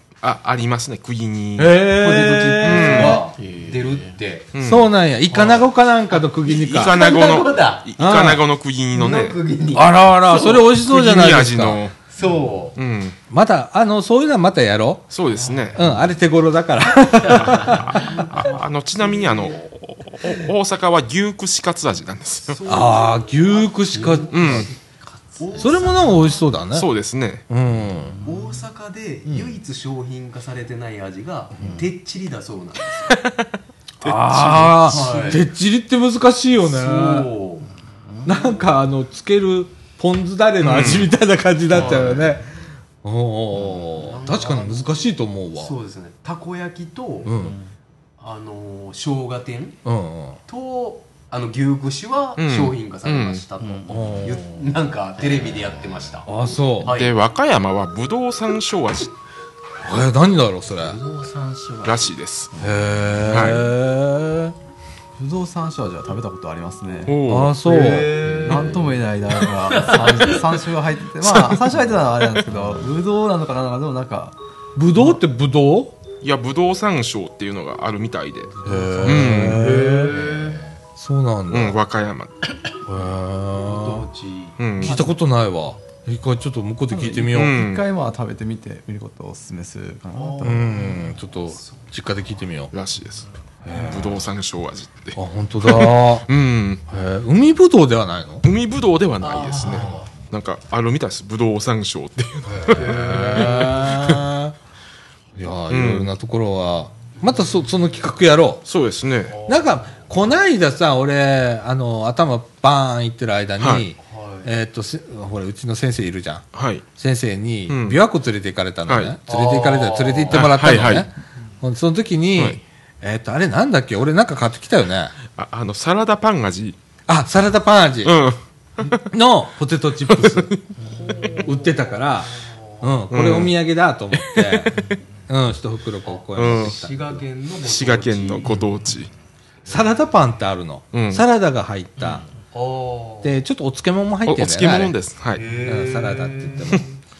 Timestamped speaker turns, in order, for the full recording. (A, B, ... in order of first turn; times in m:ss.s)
0:00.2-0:01.8 A
0:01.6-0:03.3 B
0:01.9-0:04.5 C
0:02.6-0:03.2 A
0:03.4-0:04.1 D
0:04.5-0:04.9 A
0:04.6-0:07.0 B
0:05.3-0:07.9 C
0:06.4-0:09.4 A
0:08.0-0:08.4 B
0:08.9-0:10.7 C
0:09.7-0:11.8 B
0:10.5-0:12.0 A
0:12.1-0:12.8 C
0:12.8-0:13.2 A
0:13.3-0:15.1 B
0:15.1-0:15.8 A
0:15.4-0:15.8 D
0:15.7-0:18.0 B
0:17.5-0:22.6 A
0:17.7-0:18.6 C
0:22.5-0:24.3 C
0:22.6-0:24.7 B
0:24.0-0:25.4 D
0:24.3-0:24.7 A
0:25.4-0:26.4 C
0:25.6-0:26.9 B
0:26.7-0:27.4 A
0:27.5-0:28.2 B
0:28.2-0:33.1 C
0:29.2-0:29.5 B
0:34.0-0:35.1 A
0:34.0-0:37.3 B
0:34.7-0:35.5 C
0:36.6-0:37.7 C
0:38.2-0:42.5 B
0:38.3-0:38.6 C
0:40.6-0:41.1 A
0:41.7-0:42.4 C
0:43.0-0:45.7 B
0:43.7-0:47.3 C
0:47.2-0:47.6 B
0:48.2-0:49.8 C
0:49.8-0:50.4 B
0:50.5-0:56.3 C
0:52.4-0:53.4 A
0:53.6-0:54.0 D
0:53.9-0:54.6 B
0:55.3-0:55.7 D
0:56.2-0:57.0 B
0:56.8-0:57.1 C
0:56.8-0:59.1 A
0:59.8-1:01.0 B
1:00.8-1:02.8 D
1:01.8-1:02.5 A
1:02.6-1:04.5 B
1:03.2-1:03.7 A
1:05.2-1:07.2 E
1:07.0-1:07.5 A
1:07.2-1:08.2 B
1:07.6-1:08.9 C
1:08.2-1:09.0 D
1:08.4-1:14.4 E
1:09.7-1:10.5 D
1:14.8-1:16.0 B
1:16.2-1:19.7 A
1:18.6-1:20.2 B
1:18.6-1:20.6 C
1:20.1-1:20.4 D
1:21.0-1:21.8 B
1:21.5-1:22.4 A
1:22.8-1:24.0 B
1:23.5-1:25.1 C
1:24.6-1:25.0 A
1:24.8-1:27.6 B
1:26.9-1:30.7 E
1:27.3-1:27.8 A
1:30.1-1:31.9 C
1:30.4-1:32.7 B
1:32.7-1:36.8 A
1:33.6-1:34.2 B
1:35.1-1:36.3 B
1:36.9-1:38.4 B
1:38.4-1:44.2 A
1:39.2-1:40.1 C
1:42.5-1:44.5 B
1:42.7-1:43.9 C
1:45.4-1:48.6 B
1:45.7-1:46.1 A
1:48.6-1:49.4 A
1:49.3-1:49.9 C
1:49.4-1:56.4 B
1:53.6-1:53.8 A
1:54.0-1:54.5 C
1:56.5-1:56.8 A
1:57.0-2:05.1 B
1:57.7-1:58.0 A
1:58.9-1:59.2 A
1:59.3-2:00.6 C
2:00.3-2:01.1 A
2:05.4-2:06.8 A
2:07.1-2:08.2 B
2:08.0-2:09.1 A
2:09.0-2:10.6 B
2:10.1-2:10.5 A
2:10.9-2:12.9 C
2:11.3-2:17.2 B
2:13.1-2:13.6 A
2:14.2-2:14.8 A
2:16.0-2:18.5 C
2:16.3-2:16.8 A
2:17.6-2:19.1 A
2:19.6-2:22.2 B
2:20.9-2:21.2 A
2:22.5-2:23.4 C
2:23.2-2:24.9 B
2:24.2-2:25.4 A
2:25.3-2:27.0 C
2:25.6-2:26.9 B